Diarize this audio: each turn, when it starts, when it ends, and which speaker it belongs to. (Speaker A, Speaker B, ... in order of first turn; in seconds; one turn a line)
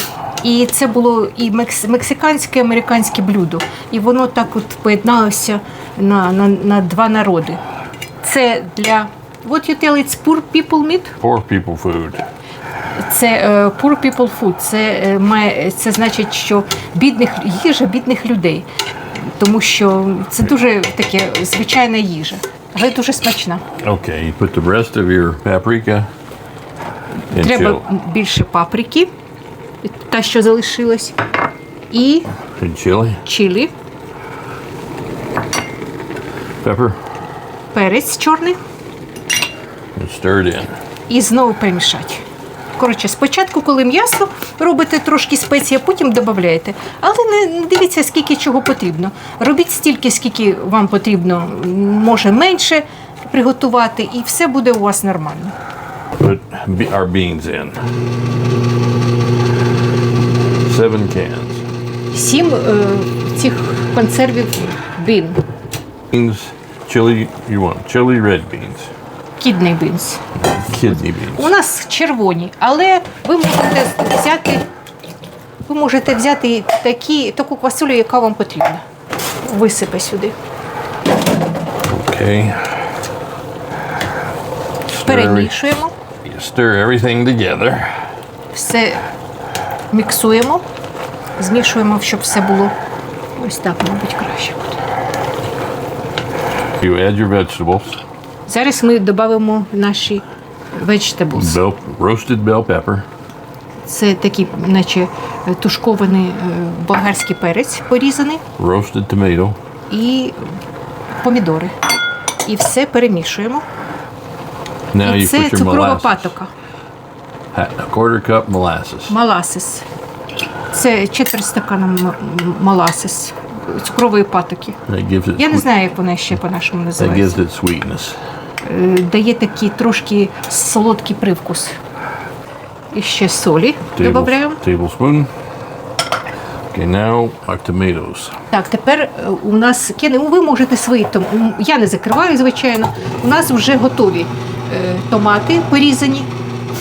Speaker A: 0.4-7.6
Speaker A: 8.2-11.2
Speaker B: 11.2-12.3
Speaker A: 13.0-23.6
Speaker B: 23.8-26.1
Speaker B: 27.3-27.8
Speaker A: 27.4-29.1
Speaker A: 29.8-31.2
Speaker A: 31.9-32.3
Speaker B: 32.6-33.2
Speaker A: 33.2-33.7
Speaker B: 36.6-37.0
Speaker A: 37.7-38.6
Speaker B: 40.0-40.7
Speaker A: 41.1-42.2
Speaker A: 42.8-55.6
Speaker B: 56.2-57.8
Speaker B: 60.6-61.6
Speaker A: 62.1-65.4
Speaker B: 66.1-68.9
Speaker A: 69.4-70.3
Speaker B: 70.4-71.5
Speaker A: 71.3-74.7
Speaker A: 75.7-78.8
Speaker A: 79.4-80.4
Speaker B: 81.9-82.8
Speaker B: 84.9-85.6
Speaker A: 85.0-85.9
Speaker B: 86.2-88.1
Speaker A: 88.5-89.0
Speaker A: 89.9-90.7
Speaker A: 91.4-92.8
Speaker A: 93.4-94.8
Speaker B: 96.8-98.0
Speaker A: 98.5-101.6
Speaker B: 101.3-103.1
Speaker A: 103.8-108.4
Speaker B: 108.6-109.6
Speaker A: 109.9-110.5
Speaker A: 111.2-111.8
Speaker A: 112.5-113.7
Speaker B: 114.9-116.3
Speaker A: 115.0-116.5
Speaker B: 117.5-119.2
Speaker A: 119.1-119.9
Speaker A: 120.7-124.8
Speaker B: 124.9-125.7
Speaker A: 125.4-127.4
Speaker B: 127.0-128.2
Speaker A: 128.6-131.8
Speaker A: 132.9-134.6
Speaker B: 134.0-135.3
Speaker B: 136.7-138.4
Speaker A: 138.5-146.3